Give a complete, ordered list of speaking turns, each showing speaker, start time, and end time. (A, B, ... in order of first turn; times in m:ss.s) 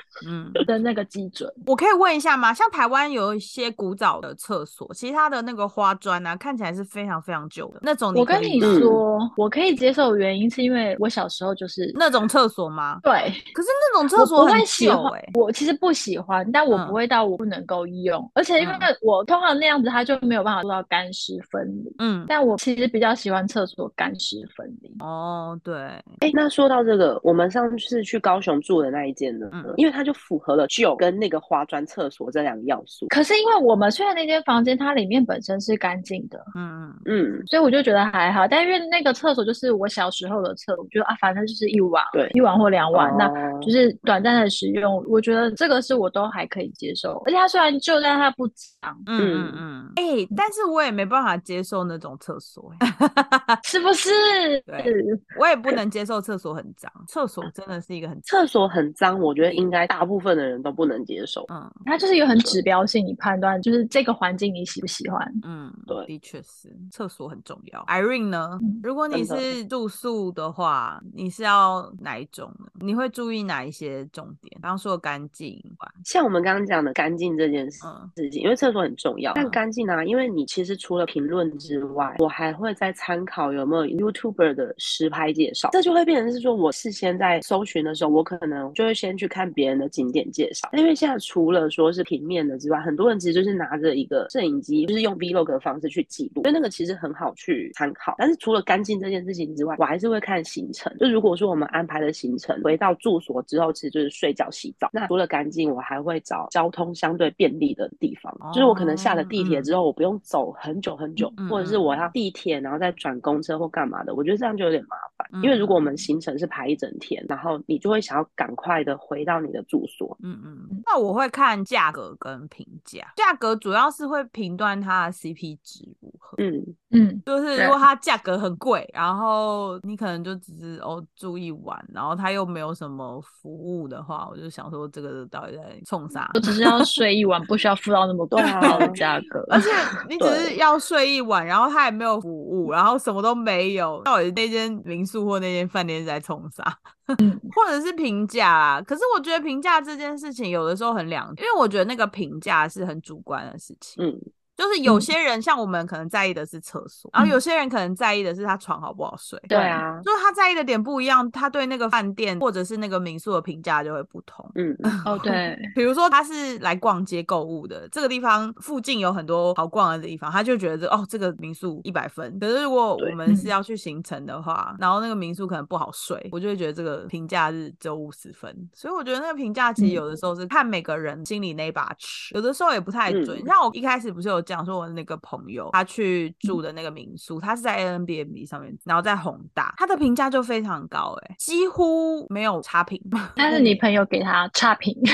0:00.2-0:00.7 A
0:00.6-0:01.6 B
0:01.7-0:08.9 A
0:08.1-0:12.0 B
0:08.6-0:09.0 C
0:12.0-0:15.3 A
0:13.0-0:13.5 B
0:14.2-0:25.0 B
0:16.7-0:17.0 A
0:18.6-0:18.9 A
0:22.0-0:22.3 A
0:25.0-0:26.1 A
0:26.2-0:33.1 C
0:29.5-0:29.8 A
0:33.1-0:36.5 B
0:36.6-0:37.1 A
0:37.1-0:37.5 C
0:37.5-0:49.0 B
0:42.9-0:43.7 C
0:49.1-0:53.6 A
0:49.2-0:49.6 C
0:53.6-0:55.7 B
0:54.7-0:58.2 A
0:58.3-1:01.5 C
1:01.5-1:01.8 A
1:01.9-1:05.4 B
1:05.4-1:16.0 A
1:09.1-1:09.5 C
1:16.0-2:00.2 C
1:17.8-1:18.1 A
1:48.4-1:49.7 A
1:51.4-1:52.1 A
1:55.3-1:55.9 A
2:00.2-2:06.4 A
2:06.4-2:06.8 C
2:06.9-2:07.8 B
2:07.3-2:16.8 A
2:16.4-2:19.7 B
2:18.3-2:19.0 C
2:18.6-2:34.0 A
2:20.2-2:20.6 C
2:27.2-2:27.5 B
2:34.0-2:34.2 C
2:34.6-2:39.5 A
2:39.5-2:39.8 B
2:39.5-2:40.1 C
2:40.0-3:13.4 A
2:44.6-2:44.9 C
2:45.1-2:45.7 B
3:03.1-3:03.5 C
3:13.4-3:15.1 B
3:13.5-3:13.8 C